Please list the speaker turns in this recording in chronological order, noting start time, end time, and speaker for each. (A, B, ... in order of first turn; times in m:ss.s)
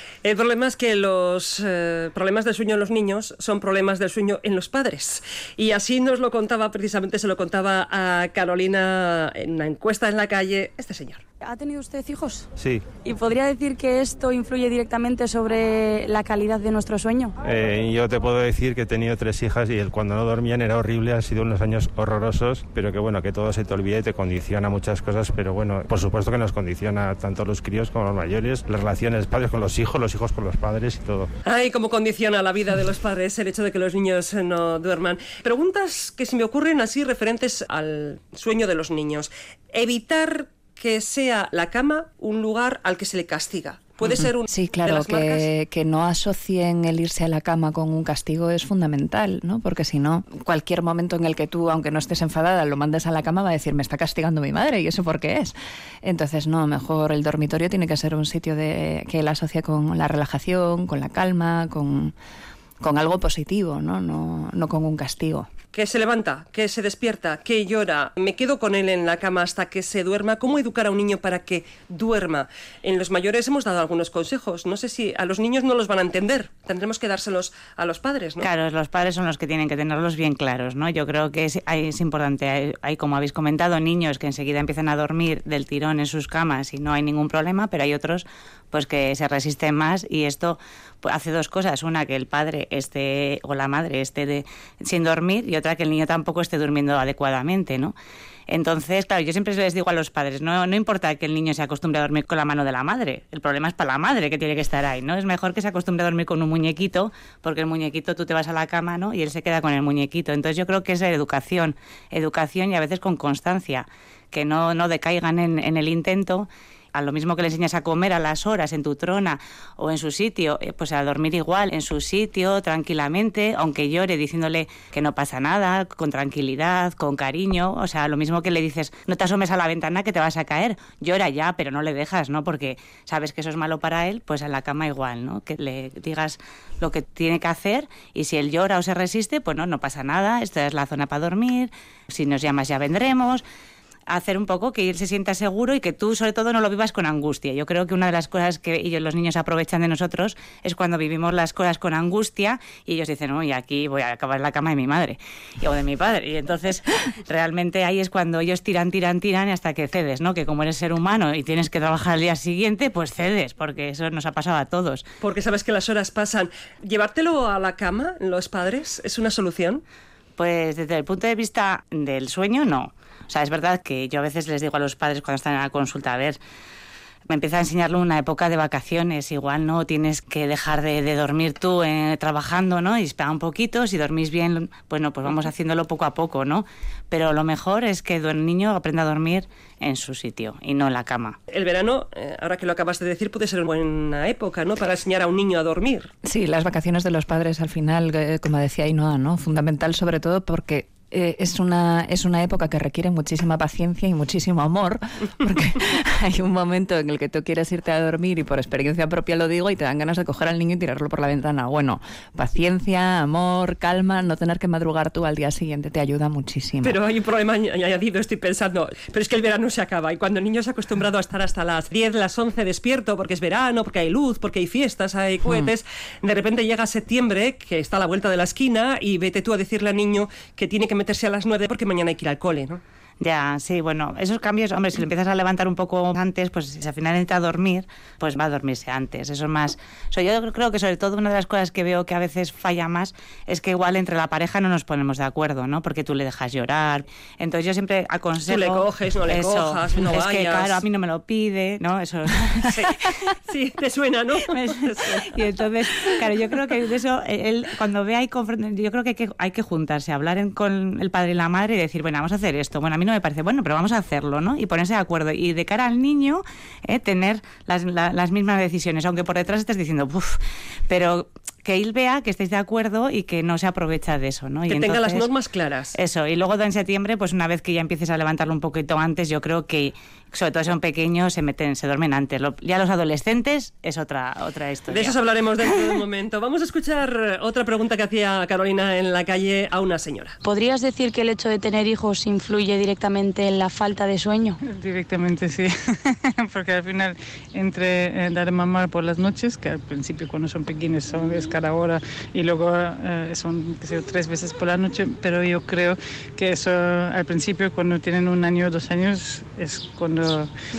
0:00.2-0:11.2 A
0:11.4-0:12.5 B
0:12.6-0:12.8 C
0:13.0-0:17.3 B
0:17.4-0:31.3 C
0:31.4-0:45.4 A
0:44.1-1:02.1 D
1:02.8-1:05.5 D
1:05.7-1:18.5 A
1:18.4-1:37.9 E
1:38.5-2:23.4 E
2:24.1-2:45.0 E
2:45.2-2:49.8 A
2:50.4-2:56.4 E
2:57.3-3:11.4 E
3:11.5-3:16.1 A
3:16.2-3:37.0 D
3:36.8-3:52.8 A
3:53.2-4:12.7 E
4:08.5-4:10.8 A
4:12.7-4:12.9 A
4:13.5-4:15.3 A
4:14.5-4:35.3 E
4:34.7-4:36.0 A
4:35.9-4:45.1 E
4:44.9-4:50.4 A
4:50.4-4:54.6 B
4:54.6-5:10.5 F